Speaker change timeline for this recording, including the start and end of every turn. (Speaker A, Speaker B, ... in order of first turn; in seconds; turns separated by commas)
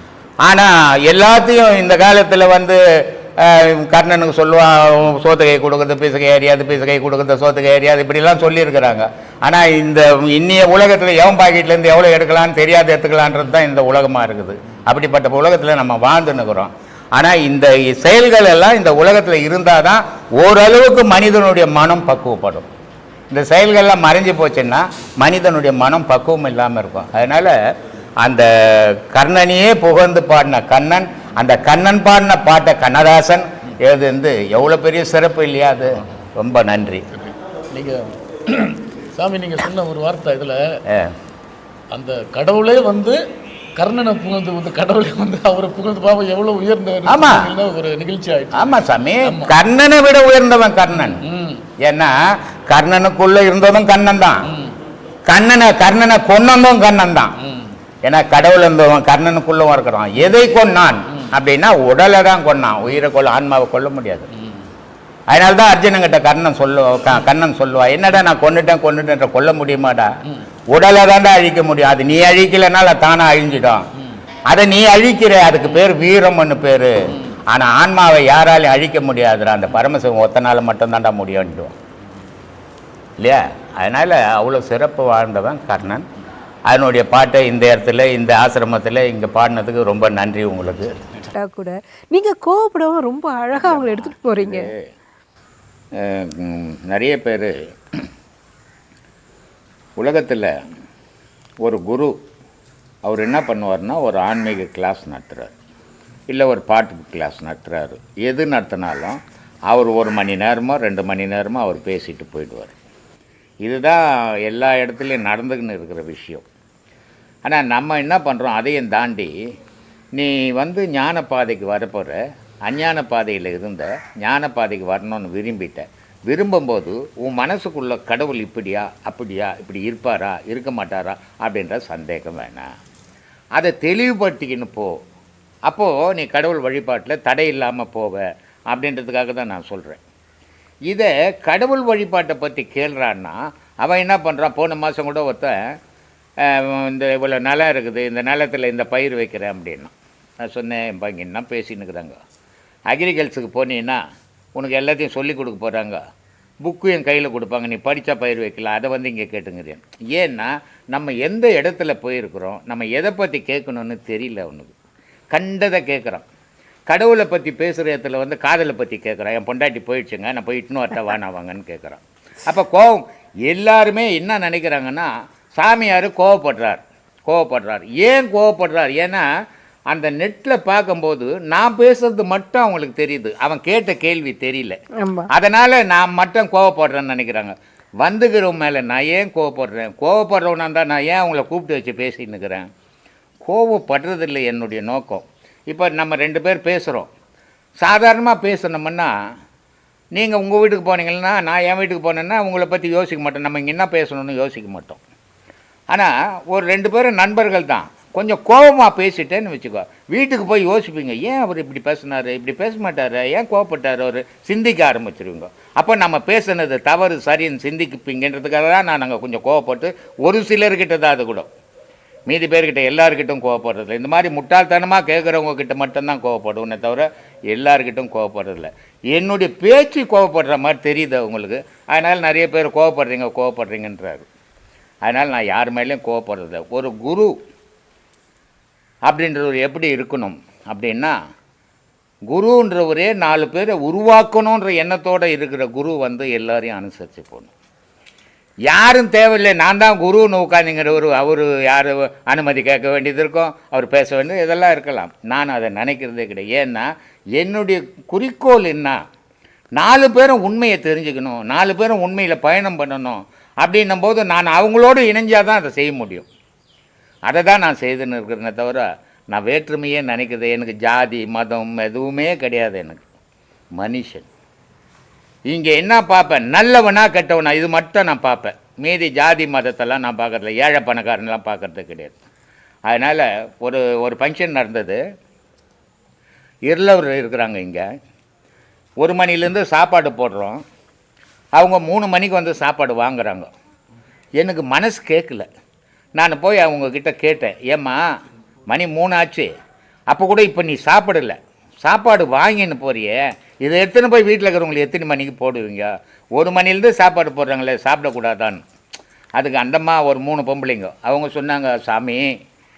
Speaker A: 0.4-22.7, Speaker A: 23.3-27.7, Speaker A: 28.2-37.0, Speaker B: 37.2-40.8, Speaker A: 40.9-41.1, Speaker B: 41.9-43.2, Speaker B: 43.8-49.5, Speaker A: 47.1-47.5, Speaker A: 48.5-51.2, Speaker B: 51.2-51.6, Speaker A: 51.8-52.1, Speaker A: 52.7-54.5, Speaker B: 54.5-54.8, Speaker A: 55.3-57.3, Speaker B: 57.4-57.7, Speaker A: 58.0-64.3, Speaker A: 65.3-70.1, Speaker A: 70.7-73.9, Speaker A: 74.5-81.8, Speaker A: 83.2-86.1, Speaker A: 86.7-91.1, Speaker C: 91.3-94.7, Speaker A: 93.6-94.9, Speaker A: 95.9-97.6, Speaker A: 100.0-100.6, Speaker A: 101.6-102.2, Speaker A: 103.0-105.5, Speaker A: 106.3-112.8, Speaker A: 113.6-116.5, Speaker A: 117.5-119.3, Speaker A: 120.2-132.7, Speaker A: 133.6-135.0, Speaker A: 135.7-140.0, Speaker A: 140.9-145.8, Speaker A: 146.4-152.2, Speaker A: 152.9-154.0, Speaker A: 154.6-156.0, Speaker A: 156.6-164.8, Speaker A: 165.3-166.2, Speaker A: 166.9-179.2, Speaker A: 179.9-184.8, Speaker C: 185.0-185.3, Speaker A: 185.3-192.7, Speaker A: 193.4-197.1, Speaker A: 197.8-199.1, Speaker A: 200.1-205.0, Speaker A: 205.9-221.5, Speaker A: 222.3-234.3, Speaker A: 235.1-237.3, Speaker A: 239.1-241.2, Speaker A: 242.3-247.5, Speaker A: 248.7-259.0, Speaker A: 259.8-266.3, Speaker A: 267.3-273.1, Speaker A: 273.8-274.3, Speaker A: 275.5-282.2, Speaker A: 282.9-285.0, Speaker A: 286.7-287.9, Speaker A: 289.0-290.6, Speaker A: 291.6-293.5, Speaker A: 294.4-295.5, Speaker A: 296.2-298.0, Speaker A: 298.7-299.5, Speaker A: 300.1-308.6, Speaker A: 309.4-312.3